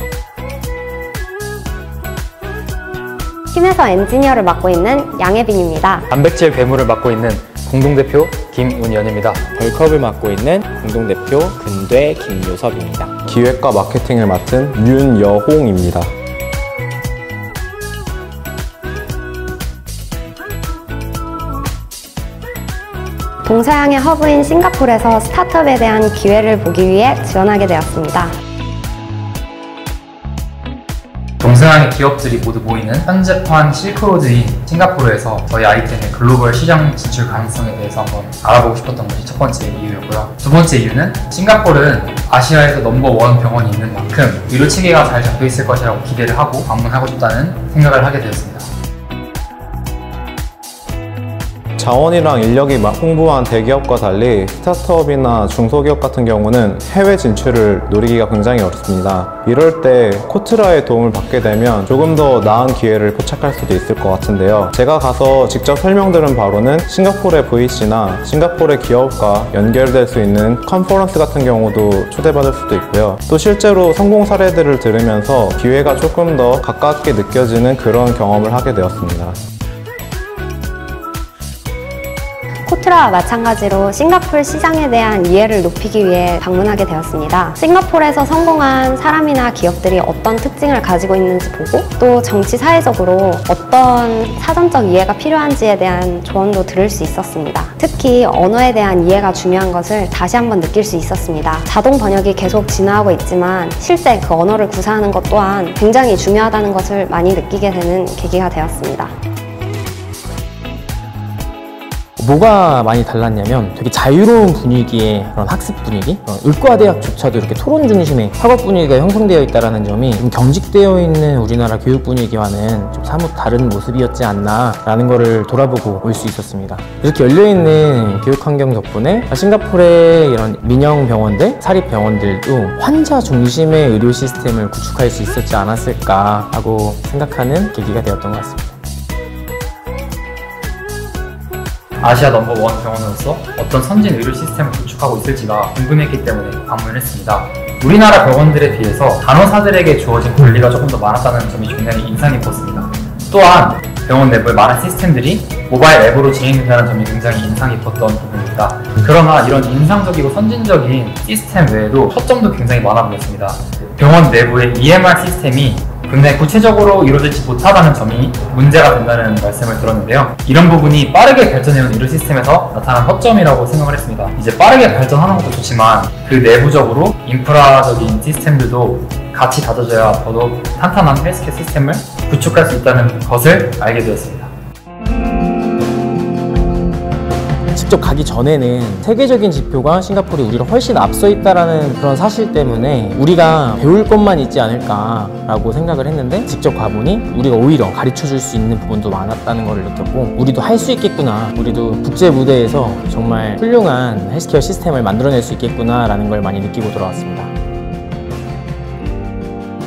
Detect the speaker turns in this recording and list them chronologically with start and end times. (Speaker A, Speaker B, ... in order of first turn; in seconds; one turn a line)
Speaker A: 3.5-6.1
Speaker B: 6.1-9.4
Speaker C: 9.5-13.1
Speaker D: 13.3-16.1
Speaker A: 23.4-28.3
Speaker B: 31.4-48.7
Speaker D: 51.8-79.3
Speaker A: 82.7-109.1
Speaker C: 112.2-138.7
Speaker B: 142.0-184.5
Speaker C: 187.7-207.5